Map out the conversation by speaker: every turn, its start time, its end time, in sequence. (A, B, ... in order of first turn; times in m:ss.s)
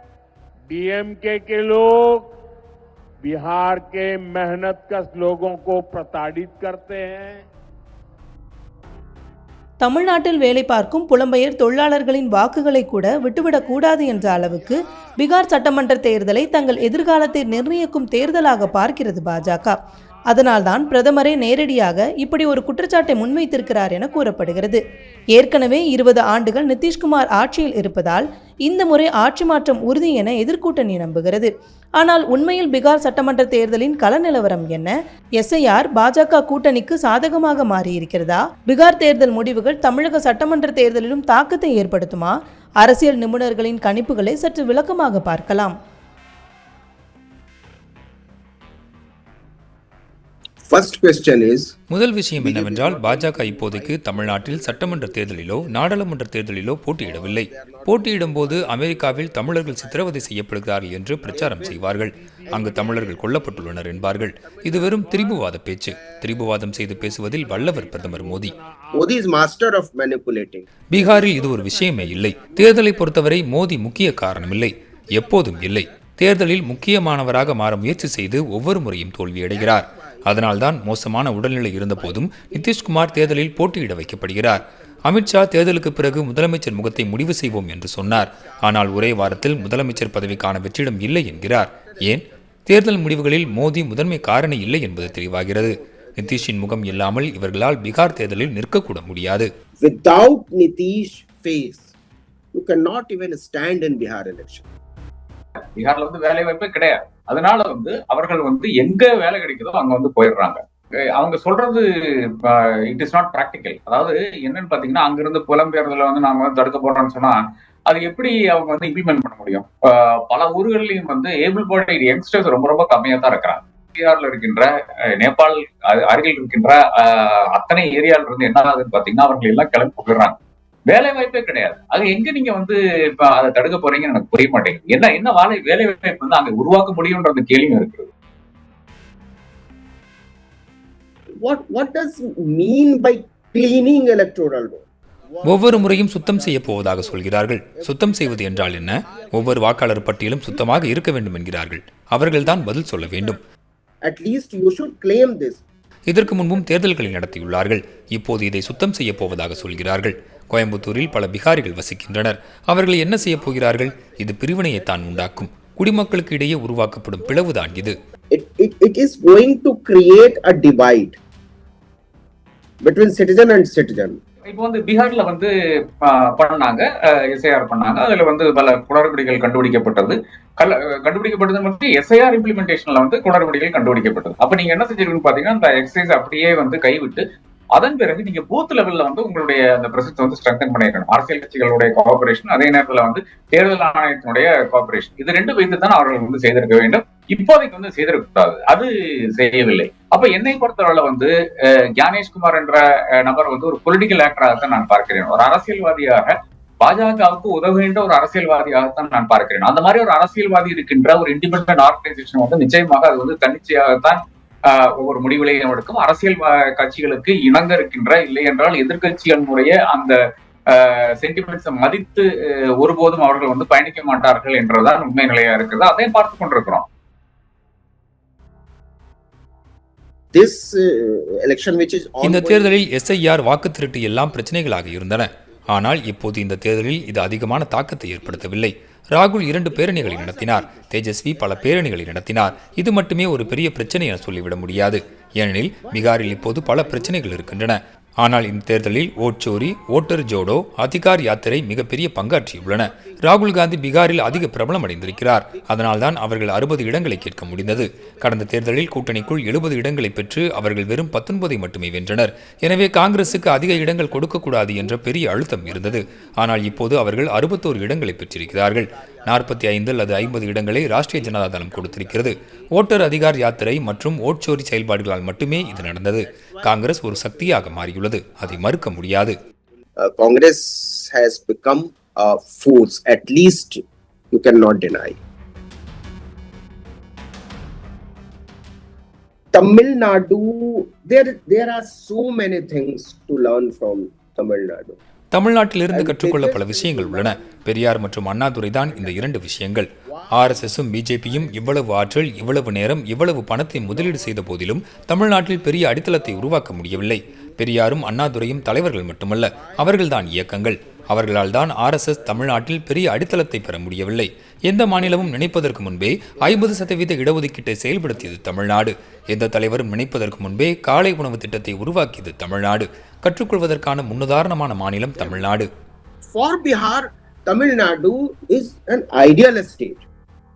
0:00.7-0:02.3 A
0:03.2-0:07.4 A
0:09.8-0:19.8 B
0:20.3-0:24.8 B
0:25.4-0:45.8 B
0:50.7-0:51.7 C
0:51.9-1:08.6 D
0:52.4-0:56.1 C
0:57.0-1:00.5 C
1:01.2-1:03.0 A
1:01.3-1:05.4 C
1:05.9-1:06.2 C
1:06.8-1:07.2 C
1:07.2-1:09.2 A
1:07.7-1:13.4 C
1:10.9-1:39.5 D
1:14.0-1:18.5 C
1:19.5-1:20.7 C
1:21.9-1:32.2 C
1:33.0-1:38.5 C
1:39.8-1:41.9 C
1:42.5-1:44.6 C
1:45.7-1:50.6 E
1:51.1-2:10.4 E
2:10.9-2:18.1 E
2:21.4-2:31.1 C
2:25.4-2:33.4 D
2:32.4-2:33.4 C
2:34.0-2:35.6 C
2:36.1-2:48.0 D
2:36.2-2:46.1 C
2:47.2-2:51.2 C
2:52.8-2:54.2 C
2:54.5-2:55.5 E
2:56.0-3:07.2 E
3:07.8-3:21.3 E
3:22.0-3:40.2 E
3:40.7-3:42.3 E
3:42.8-3:46.8 E
3:50.3-3:53.1 C
3:52.2-4:39.4 D
3:54.2-3:56.0 C
3:57.1-3:58.5 C
3:59.7-4:07.7 C
4:12.6-4:20.9 C
4:22.5-4:34.1 C
4:35.3-4:45.2 C
4:49.5-4:55.0 C
4:55.3-5:25.7 D
4:55.9-4:57.7 C
4:58.8-4:59.4 C
5:00.1-5:02.7 C
5:03.6-5:12.8 C
5:14.9-5:15.5 C
5:16.5-5:16.9 C
5:18.1-5:18.8 C
5:25.2-5:25.5 C
5:26.3-5:30.0 C